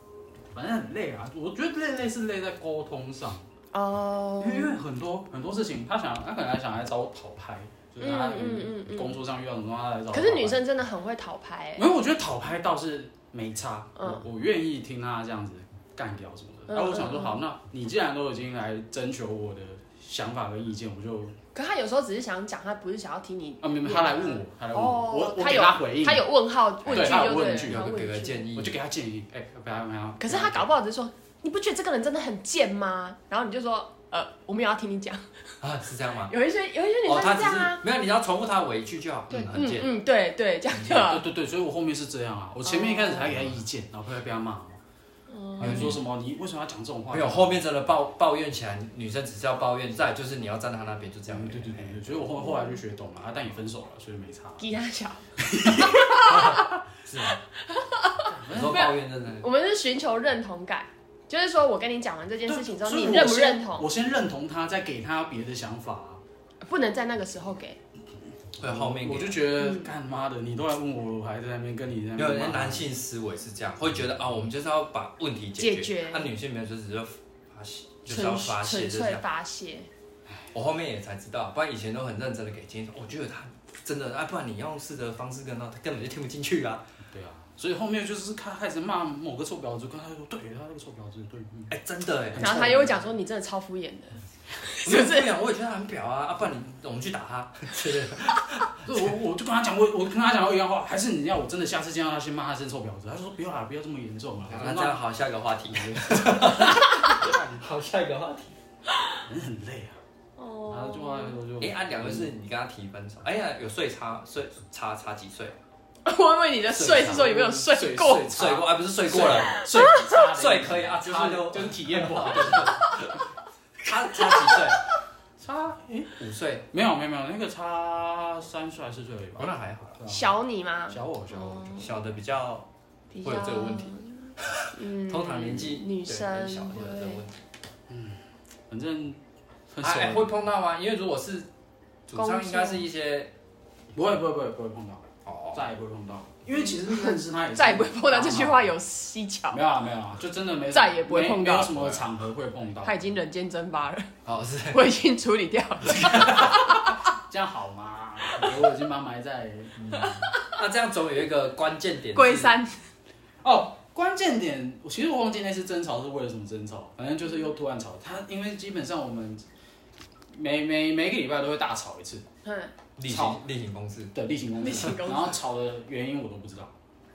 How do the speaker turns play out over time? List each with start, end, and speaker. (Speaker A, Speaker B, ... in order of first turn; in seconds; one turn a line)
Speaker A: 0.5-3.5
Speaker B: 3.7-4.8
Speaker A: 4.4-10.6
Speaker B: 8.0-9.2
Speaker B: 10.1-11.8
Speaker A: 11.8-21.4
Speaker B: 14.0-14.2
Speaker B: 16.7-17.4
Speaker B: 21.5-28.5
Speaker A: 23.6-26.3
Speaker C: 26.8-28.8
Speaker A: 26.9-27.8
Speaker A: 28.6-30.6
Speaker B: 30.2-35.4
Speaker C: 35.6-36.3
Speaker B: 36.3-37.8
Speaker C: 37.0-39.9
Speaker B: 39.3-41.3
Speaker A: 40.9-44.8
Speaker B: 42.6-43.3
Speaker B: 45.3-46.0
Speaker A: 45.6-47.6
Speaker C: 45.6-46.0
Speaker C: 47.1-52.2
Speaker A: 51.3-54.7
Speaker B: 52.4-52.8
Speaker B: 54.6-56.7
Speaker A: 55.4-56.7
Speaker C: 56.3-57.4
Speaker B: 57.6-63.9
Speaker A: 58.3-59.0
Speaker C: 58.5-59.5
Speaker A: 62.5-66.2
Speaker B: 66.6-67.8
Speaker C: 68.6-69.4
Speaker A: 68.6-72.9
Speaker B: 69.6-69.9
Speaker C: 72.2-79.2
Speaker B: 75.6-76.3
Speaker B: 78.1-79.9
Speaker C: 80.5-86.8
Speaker A: 87.1-91.8
Speaker C: 91.7-92.8
Speaker A: 92.3-93.0
Speaker B: 92.4-95.3
Speaker C: 94.8-99.0
Speaker A: 98.8-105.0
Speaker C: 104.5-108.6
Speaker A: 105.7-107.7
Speaker B: 106.9-107.2
Speaker A: 109.2-110.0
Speaker B: 110.4-111.4
Speaker A: 110.7-112.3
Speaker C: 111.6-115.6
Speaker B: 116.1-118.3
Speaker C: 116.7-117.3
Speaker A: 117.0-123.0
Speaker C: 118.3-119.6
Speaker B: 119.7-120.2
Speaker C: 120.3-123.2
Speaker C: 123.8-124.8
Speaker A: 125.4-126.2
Speaker C: 126.2-126.7
Speaker A: 126.7-130.3
Speaker C: 129.4-130.0
Speaker B: 130.1-131.9
Speaker A: 130.9-131.8
Speaker C: 131.7-132.7
Speaker B: 133.1-137.2
Speaker C: 133.2-137.4
Speaker A: 137.9-139.2
Speaker A: 139.7-140.4
Speaker C: 139.8-141.5
Speaker C: 142.1-143.3
Speaker B: 142.2-142.9
Speaker A: 143.9-148.7
Speaker C: 145.2-145.7
Speaker B: 146.6-149.6
Speaker A: 149.5-153.1
Speaker B: 150.7-151.9
Speaker B: 152.8-154.1
Speaker C: 154.2-154.8
Speaker B: 154.7-157.0
Speaker A: 156.1-160.3
Speaker B: 159.9-160.5
Speaker C: 160.6-162.6
Speaker B: 162.1-162.8
Speaker A: 163.4-169.4
Speaker A: 170.3-172.3
Speaker B: 172.4-172.7
Speaker C: 173.0-174.1
Speaker A: 173.1-173.4
Speaker A: 174.1-176.8
Speaker B: 174.6-175.4